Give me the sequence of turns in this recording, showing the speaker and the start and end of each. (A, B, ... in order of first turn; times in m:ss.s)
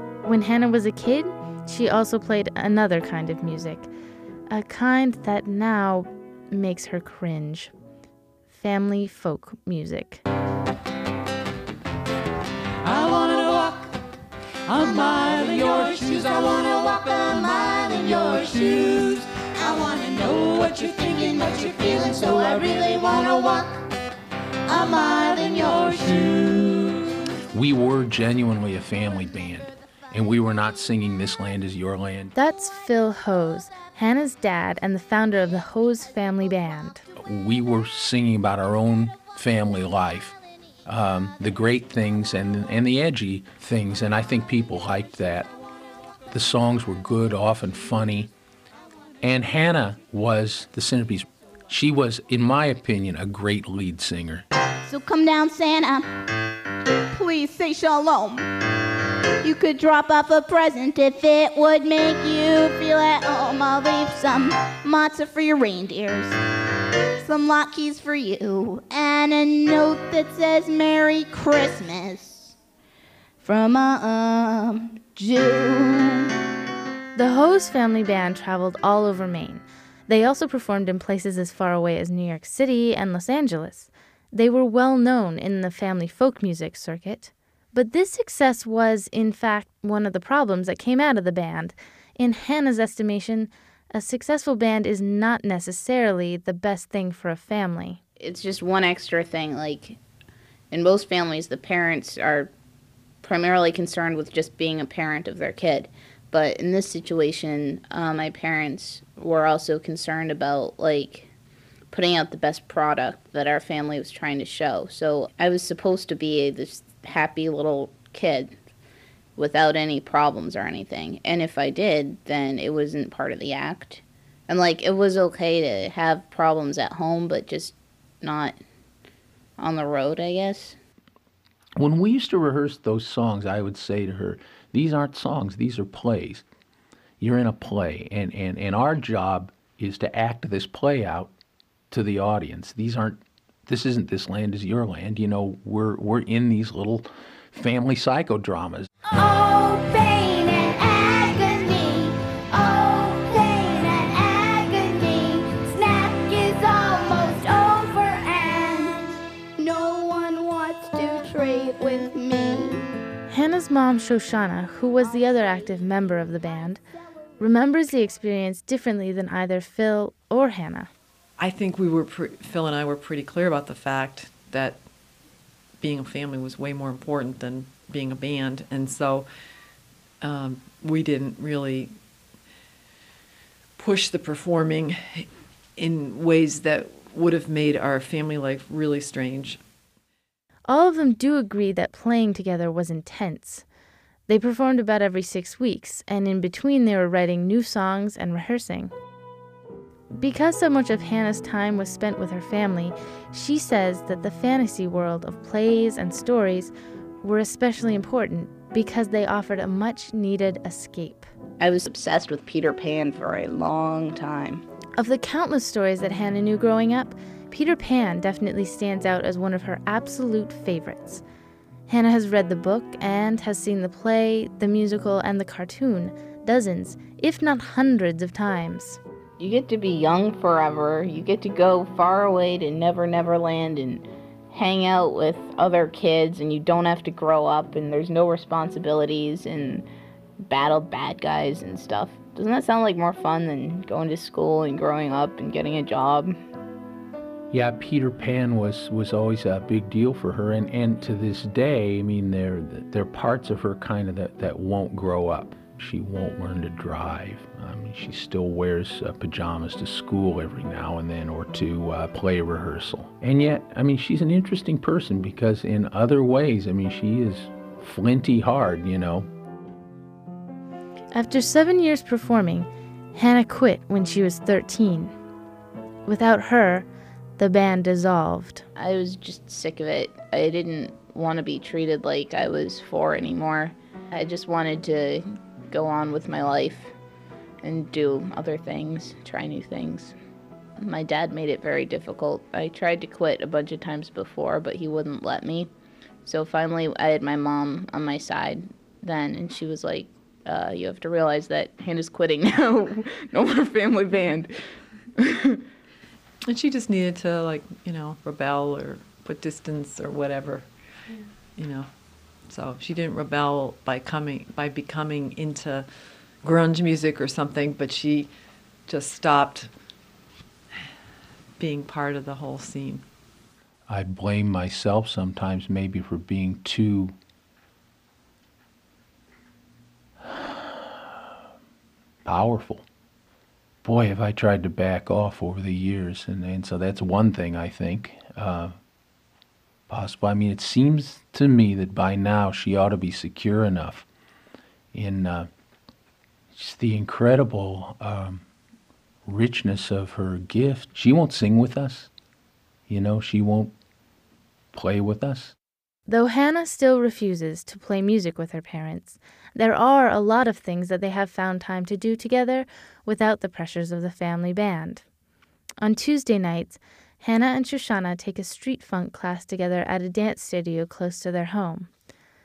0:00.2-0:03.9 A
0:04.5-0:07.7 A
0:08.5-0:10.2 A
0:12.8-0:13.9 B
0:14.7-0:19.4 B
0:16.6-0:18.7 C
0:19.5-0:23.7 C
0:20.2-0:23.6 B
0:24.7-0:25.8 C
0:25.2-0:27.0 B
0:27.5-0:32.3 D
0:32.3-0:37.0 A
0:37.2-0:45.5 D
0:46.3-0:48.3 D
0:49.2-0:54.4 D
0:54.8-0:56.1 C
0:57.1-0:58.5 C
0:59.4-1:06.4 C
1:07.2-1:12.5 C
1:13.4-1:16.3 C
1:17.2-1:38.0 A
1:38.2-1:40.0 E
1:40.7-1:42.5 E
1:43.2-1:51.3 E
1:51.9-1:58.6 E
1:59.4-2:08.6 E
2:09.6-2:10.8 E
2:11.8-2:16.4 D
2:17.2-2:21.3 D
2:21.9-2:28.9 D
2:29.2-2:42.8 C
2:43.3-2:46.8 A
2:47.4-2:50.9 A
2:51.4-2:54.8 F
2:55.8-2:59.3 F
3:00.2-3:02.0 F
3:03.8-3:09.6 F
3:10.7-3:13.6 A
3:14.3-3:18.9 A
3:20.2-3:31.3 A
3:31.6-3:34.6 E
3:35.0-3:41.2 A
3:41.9-3:49.0 A
3:49.4-3:59.8 E
4:00.4-4:06.4 E
4:07.5-4:29.3 D
4:31.1-4:35.1 A
4:36.0-4:36.8 A
4:37.4-4:38.6 A
4:38.8-4:46.9 E
4:47.6-4:50.1 E
4:50.8-4:55.7 E
4:56.2-5:04.5 E
5:05.2-5:05.6 E
5:06.4-5:18.3 F
5:18.8-5:19.7 F
5:21.6-5:23.1 F
5:23.9-5:27.1 D
5:30.3-5:30.8 D
5:32.2-5:32.8 D
5:33.8-5:38.7 D
5:39.9-5:44.0 D
5:44.9-5:45.5 D
5:46.5-5:48.4 D
5:49.2-5:52.1 D
5:52.9-5:53.7 D
5:54.7-5:55.5 D
5:56.1-6:05.0 A
6:05.8-6:11.9 A